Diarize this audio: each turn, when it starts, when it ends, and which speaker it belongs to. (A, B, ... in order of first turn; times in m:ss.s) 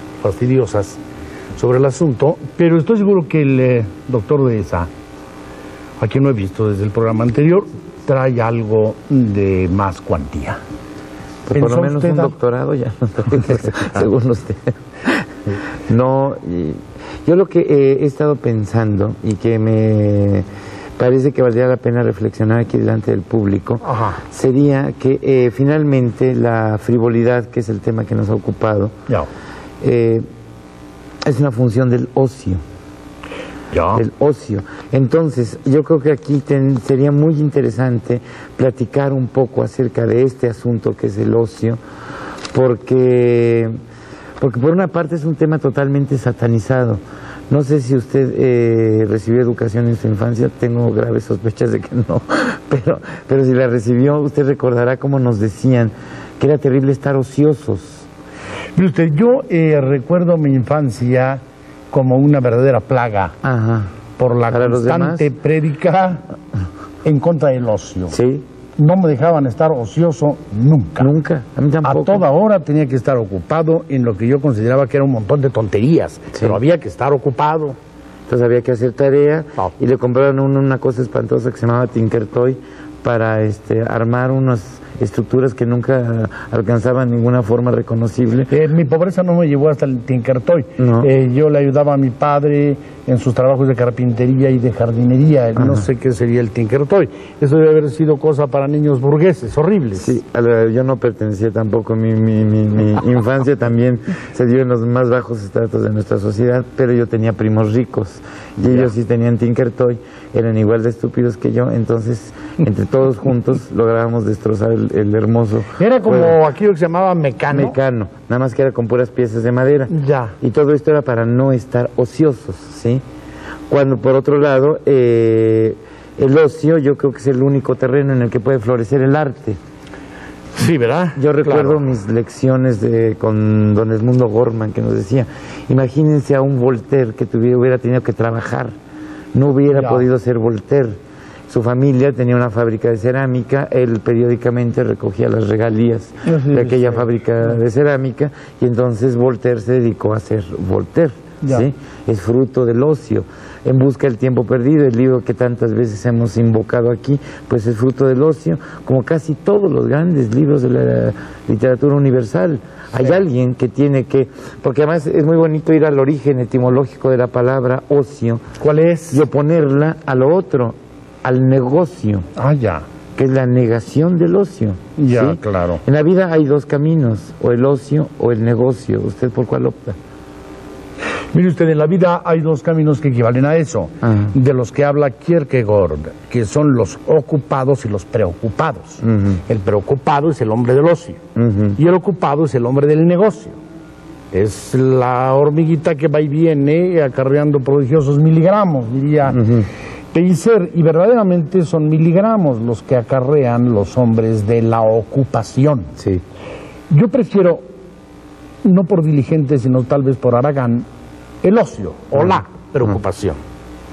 0:00.2-0:01.0 A
0:01.6-0:04.9 A
0:06.0-0:10.6 A
0:11.5-0:15.3 B
0:11.6-0:12.3 A
0:15.9-0:20.5 B
0:21.0-0:29.0 B
0:23.8-0:24.2 A
0:29.8-0:30.2 B
0:31.2-0:32.6 B
0:33.7-0:34.0 A
0:33.9-0:41.8 B
0:42.5-0:43.8 B
0:44.4-0:58.1 B
0:58.8-1:03.4 A
1:03.4-1:03.9 B
1:04.2-1:06.2 A
1:04.5-1:05.3 B
1:07.0-1:08.2 A
1:08.1-1:08.4 B
1:08.8-1:11.1 A
1:11.0-1:12.2 B
1:11.8-1:17.8 A
1:18.3-1:28.5 B
1:28.5-1:40.1 A
1:30.8-1:31.1 B
1:35.6-1:35.8 B
1:40.0-1:56.4 B
1:48.6-1:48.9 A
1:55.8-1:57.8 A
1:57.5-2:03.0 B
1:59.9-2:00.4 A
2:03.7-2:09.6 B
2:10.6-2:11.9 A
2:11.2-2:18.7 B
2:19.3-2:21.0 B
2:19.7-2:20.0 A
2:21.5-2:48.4 B
2:26.2-2:27.1 A
2:31.4-2:31.7 A
2:48.6-2:49.2 A
2:49.1-2:52.3 B
2:52.4-2:52.8 A
2:53.2-3:00.0 B
2:55.0-2:55.8 A
3:01.3-3:11.2 A
3:04.0-3:04.3 B
3:09.0-3:09.4 B
3:11.4-3:11.8 B
3:11.8-3:13.6 A
3:14.3-3:19.6 A
3:19.3-3:19.7 B
3:20.1-3:25.9 A
3:26.0-3:26.2 B
3:26.9-3:27.6 A
3:28.6-3:30.8 A
3:31.4-3:33.4 A